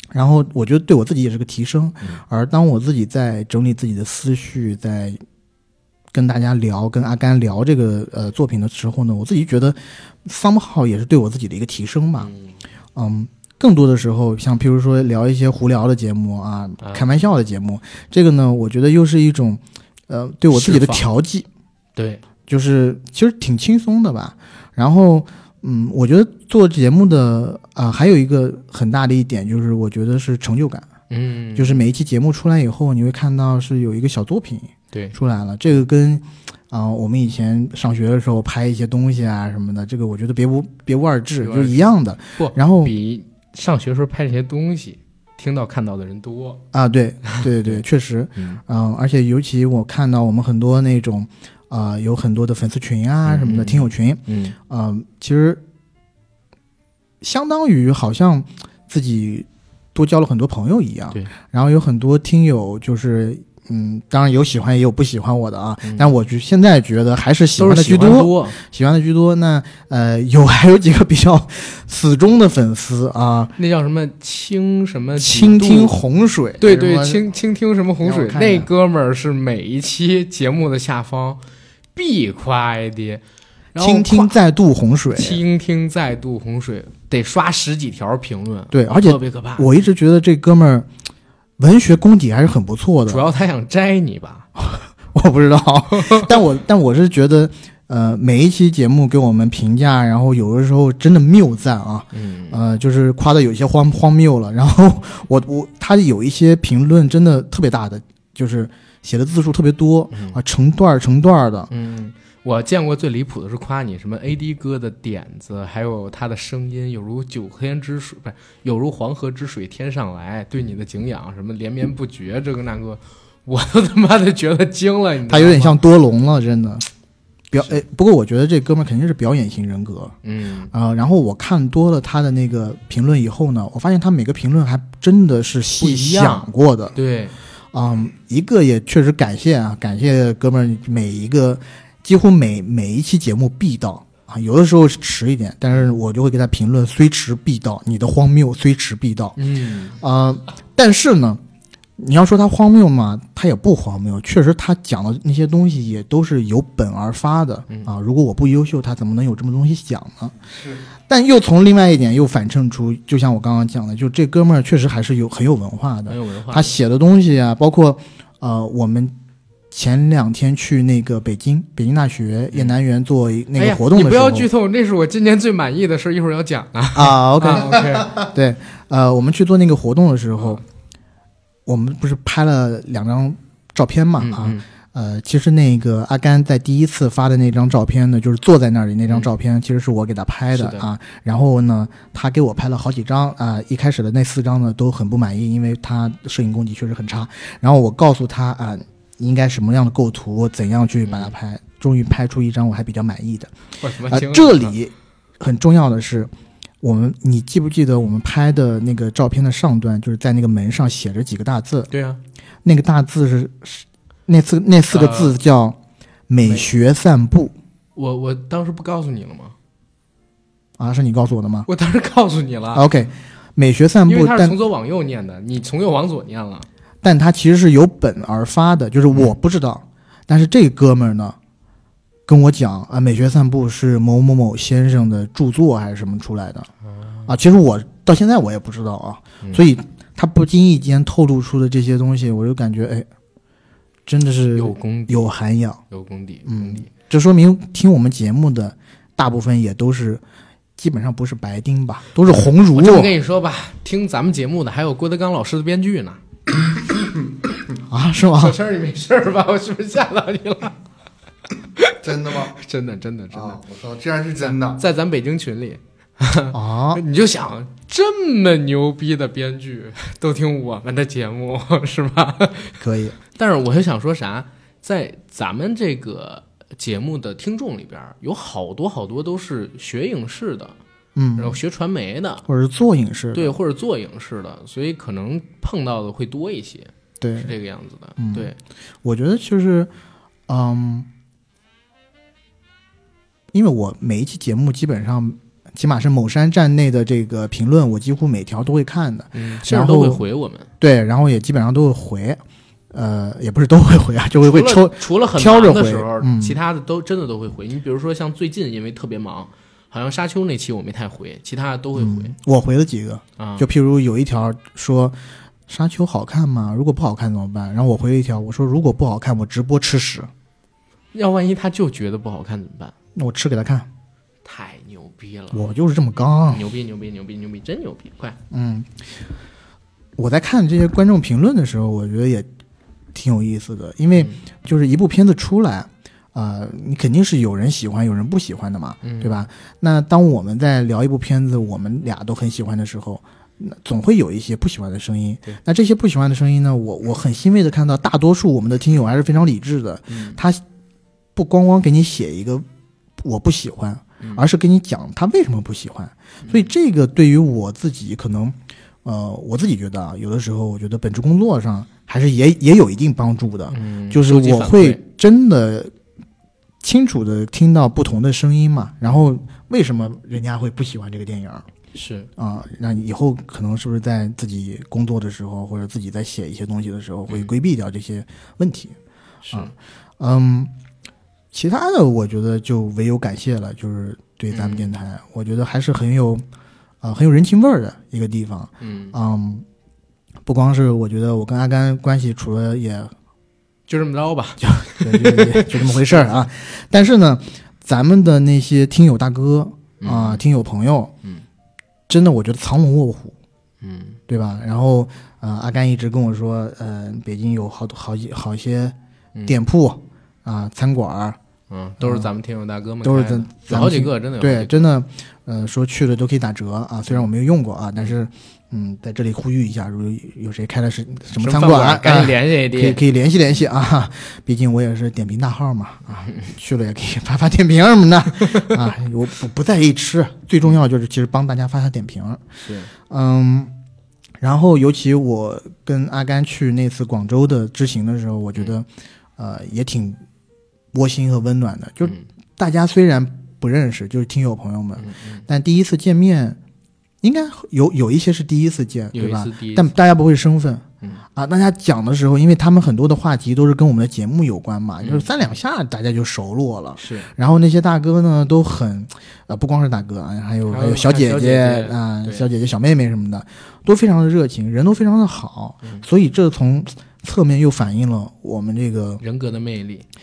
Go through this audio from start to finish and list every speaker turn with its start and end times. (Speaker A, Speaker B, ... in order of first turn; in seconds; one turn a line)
Speaker A: 0.1-5.2
Speaker A: 6.1-12.3
Speaker B: 12.2-12.5
Speaker A: 12.9-21.5
Speaker B: 16.8-17.1
Speaker B: 20.5-21.1
Speaker B: 22.0-22.2
Speaker A: 22.5-30.9
Speaker B: 31.1-31.9
Speaker A: 31.6-42.9
Speaker B: 41.4-46.6
Speaker A: 46.7-55.6
Speaker B: 47.3-47.8
Speaker B: 53.2-54.6
Speaker A: 57.2-73.5
Speaker B: 65.8-66.1
Speaker B: 67.5-68.6
Speaker B: 73.6-75.9
Speaker A: 75.2-77.2
Speaker B: 76.6-81.4
Speaker A: 78.0-78.7
Speaker B: 82.0-83.2
Speaker B: 83.7-84.4
Speaker A: 83.8-85.4
Speaker B: 85.1-89.7
Speaker A: 88.7-90.9
Speaker A: 91.6-93.3
Speaker B: 93.1-94.5
Speaker A: 94.6-111.7
Speaker B: 95.9-96.3
Speaker B: 102.1-102.6
Speaker B: 110.1-110.4
Speaker B: 111.7-125.8
Speaker A: 125.3-126.9
Speaker A: 127.5-130.2
Speaker B: 130.2-130.7
Speaker A: 130.7-137.0
Speaker B: 135.8-137.3
Speaker A: 137.7-149.4
Speaker B: 149.4-150.0
Speaker A: 150.0-151.4
Speaker A: 152.0-160.3
Speaker A: 161.1-169.1
Speaker B: 166.1-166.8
Speaker A: 169.7-174.5
Speaker B: 173.6-178.2
Speaker A: 176.9-180.6
Speaker A: 181.7-203.5
Speaker B: 184.2-184.6
Speaker B: 190.5-190.8
Speaker B: 201.1-201.3
Speaker B: 203.8-204.8
Speaker A: 204.1-206.3
Speaker A: 206.8-211.9
Speaker B: 211.9-212.2
Speaker A: 212.6-215.8
Speaker B: 214.9-215.4
Speaker A: 216.3-217.5
Speaker B: 216.4-216.7
Speaker B: 218.0-219.6
Speaker A: 220.8-221.7
Speaker B: 221.7-222.9
Speaker A: 222.7-224.6
Speaker B: 224.1-226.7
Speaker A: 227.0-231.4
Speaker A: 232.3-236.7
Speaker B: 237.0-237.3
Speaker A: 237.3-243.1
Speaker A: 244.1-245.8
Speaker B: 244.6-245.3
Speaker B: 245.9-246.9
Speaker A: 246.5-250.2
Speaker A: 250.8-253.1
Speaker B: 252.7-256.2
Speaker A: 257.9-258.6
Speaker B: 258.4-260.8
Speaker B: 261.8-263.6
Speaker C: 262.0-262.6
Speaker C: 263.3-264.8
Speaker B: 264.4-272.8
Speaker A: 266.5-267.0
Speaker A: 272.8-273.2
Speaker B: 273.4-280.8
Speaker A: 281.1-281.6
Speaker B: 281.4-282.5
Speaker A: 282.5-283.6
Speaker B: 283.3-288.6
Speaker A: 287.2-287.5
Speaker A: 288.2-288.5
Speaker A: 289.0-289.9
Speaker A: 290.5-291.1
Speaker A: 293.5-300.2
Speaker B: 299.3-300.7
Speaker A: 300.8-302.4
Speaker A: 302.9-306.6
Speaker B: 304.4-312.3
Speaker A: 312.0-315.1
Speaker B: 313.4-313.7
Speaker A: 315.7-320.3
Speaker B: 321.1-322.9
Speaker A: 323.1-323.9
Speaker B: 324.4-325.6
Speaker A: 325.5-326.7
Speaker B: 326.5-328.4
Speaker A: 328.5-329.0
Speaker A: 330.2-332.5
Speaker A: 333.1-350.6
Speaker B: 339.0-339.4
Speaker B: 350.1-350.4
Speaker A: 351.4-352.6
Speaker A: 353.2-365.9
Speaker B: 363.7-365.0
Speaker A: 366.8-371.6
Speaker B: 371.9-372.3
Speaker A: 372.4-379.0
Speaker B: 379.4-379.7
Speaker A: 379.5-380.7
Speaker A: 381.5-386.4
Speaker B: 384.5-384.9
Speaker A: 387.0-389.6
Speaker B: 388.8-389.1
Speaker A: 390.5-393.1
Speaker B: 393.9-396.3
Speaker A: 394.6-401.1
Speaker B: 400.0-400.4
Speaker A: 402.1-403.4
Speaker B: 403.8-404.2
Speaker A: 404.3-411.4
Speaker B: 411.7-414.9
Speaker A: 412.0-412.3
Speaker A: 413.0-432.4
Speaker B: 421.4-423.0
Speaker B: 426.2-426.5
Speaker B: 432.6-432.9
Speaker A: 433.0-433.7
Speaker A: 434.4-440.2
Speaker A: 440.9-446.6
Speaker B: 445.0-445.4
Speaker A: 447.2-469.2
Speaker B: 449.1-449.9
Speaker B: 455.0-455.3
Speaker B: 457.0-457.3
Speaker B: 460.7-462.5
Speaker B: 469.2-470.1